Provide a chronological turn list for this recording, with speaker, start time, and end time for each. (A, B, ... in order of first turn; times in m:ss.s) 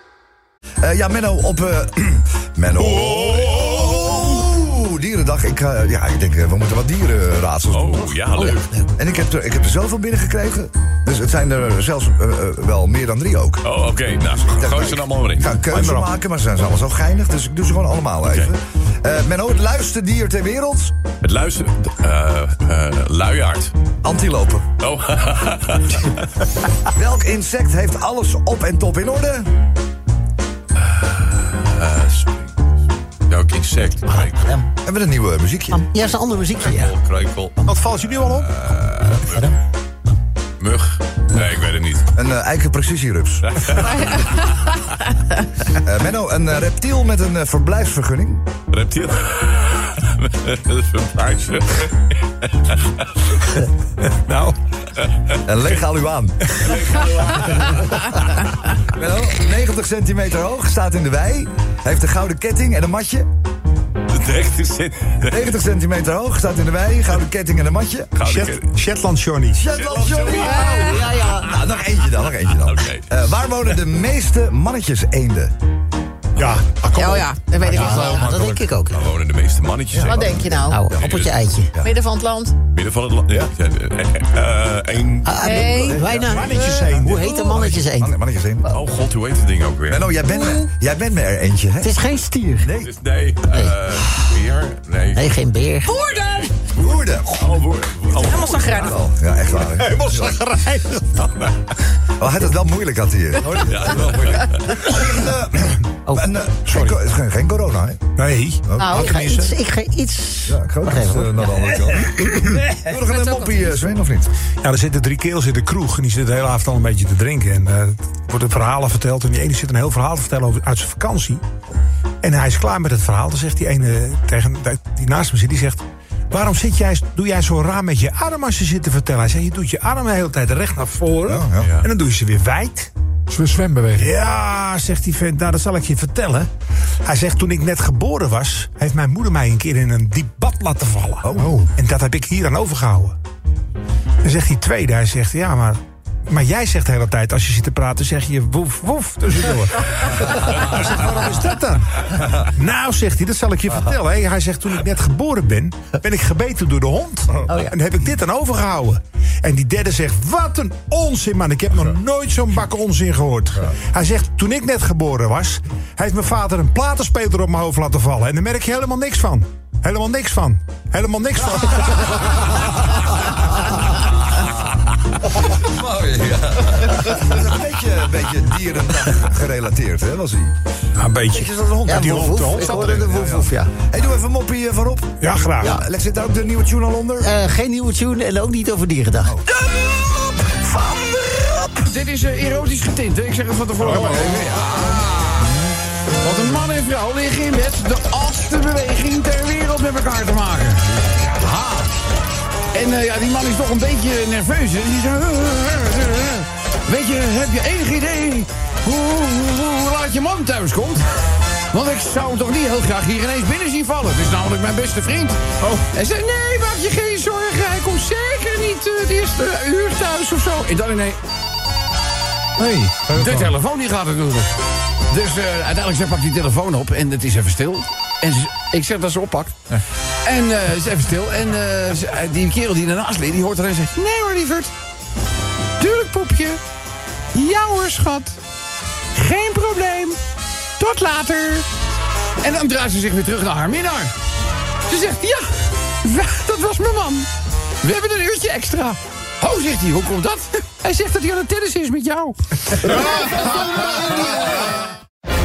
0:00.8-0:08.2 A
0:02.8-0:04.2 B
0:07.7-0:08.7 B
0:08.4-0:08.9 C
0:09.0-0:13.6 A
0:13.6-0:16.1 B
0:14.2-0:20.9 A
0:18.2-0:18.5 B
0:21.2-0:23.7 B
0:24.0-0:24.7 A
0:24.8-0:26.3 B
0:26.8-0:29.5 A
0:30.8-0:32.7 B
0:33.3-0:34.6 B
0:34.2-0:34.5 C
0:34.8-0:35.8 A
0:35.8-0:36.9 C
0:36.6-0:37.6 B
0:37.6-0:38.5 D
0:38.2-0:39.5 B
0:39.0-0:39.6 C
0:40.6-0:42.1 B
0:42.1-0:44.0 A
0:43.5-0:44.5 B
0:45.7-0:48.4 A
0:48.7-0:52.8 B
0:54.1-0:54.6 D
0:55.4-0:56.6 A
0:56.6-0:58.1 B
0:58.8-1:03.3 A
1:04.1-1:05.4 B
1:05.2-1:08.1 A
1:08.1-1:08.7 B
1:08.2-1:09.6 D
1:09.5-1:15.5 A
1:09.8-1:11.5 B
1:10.8-1:11.5 C
1:12.5-1:13.2 B
1:16.4-1:18.4 D
1:16.9-1:18.2 E
1:17.7-1:19.0 C
1:18.0-1:21.5 B
1:19.9-1:21.2 A
1:20.0-1:20.8 E
1:20.6-1:21.8 C
1:21.8-1:22.5 E
1:22.7-1:25.4 B
1:25.2-1:28.1 C
1:25.3-1:26.8 E
1:25.4-1:28.7 A
1:26.2-1:27.2 D
1:28.7-1:30.3 B
1:29.9-1:31.9 A
1:31.8-1:32.7 C
1:32.6-1:32.9 A
1:32.8-1:36.7 B
1:35.1-1:35.9 C
1:36.0-1:36.5 E
1:36.6-1:37.5 A
1:37.3-1:39.0 B
1:38.2-1:39.0 E
1:38.6-1:40.4 A
1:39.8-1:41.0 D
1:42.2-1:48.0 A
1:43.5-1:44.7 B
1:46.1-1:46.9 C
1:48.2-1:49.5 D
1:48.7-1:49.1 A
1:48.8-1:49.1 E
1:48.9-1:51.7 C
1:50.4-1:54.3 A
1:53.1-1:53.6 C
1:54.6-2:01.4 D
2:02.2-2:12.9 D
2:11.3-2:11.7 A
2:11.6-2:11.8 B
2:13.3-2:14.0 F
2:13.9-2:16.5 D
2:17.0-2:23.2 D
2:21.2-2:21.6 A
2:24.2-2:52.6 D
2:55.4-3:00.5 A
3:01.0-3:03.0 D
3:01.3-3:07.3 A
3:01.9-3:03.7 C
3:05.2-3:05.7 D
3:07.2-3:09.3 C
3:09.2-3:11.9 A
3:11.8-3:15.6 F
3:13.8-3:15.0 A
3:13.8-3:14.3 D
3:16.2-3:21.9 F
3:22.7-3:41.2 F
3:42.6-3:44.5 F
3:43.1-3:43.4 D
3:45.1-3:49.6 F
3:50.2-3:54.7 F
3:55.8-3:56.6 F
3:57.3-3:58.4 F
3:59.1-4:00.2 F
4:00.8-4:01.7 F
4:02.4-4:04.1 F
4:04.8-4:07.3 F
4:07.8-4:14.6 F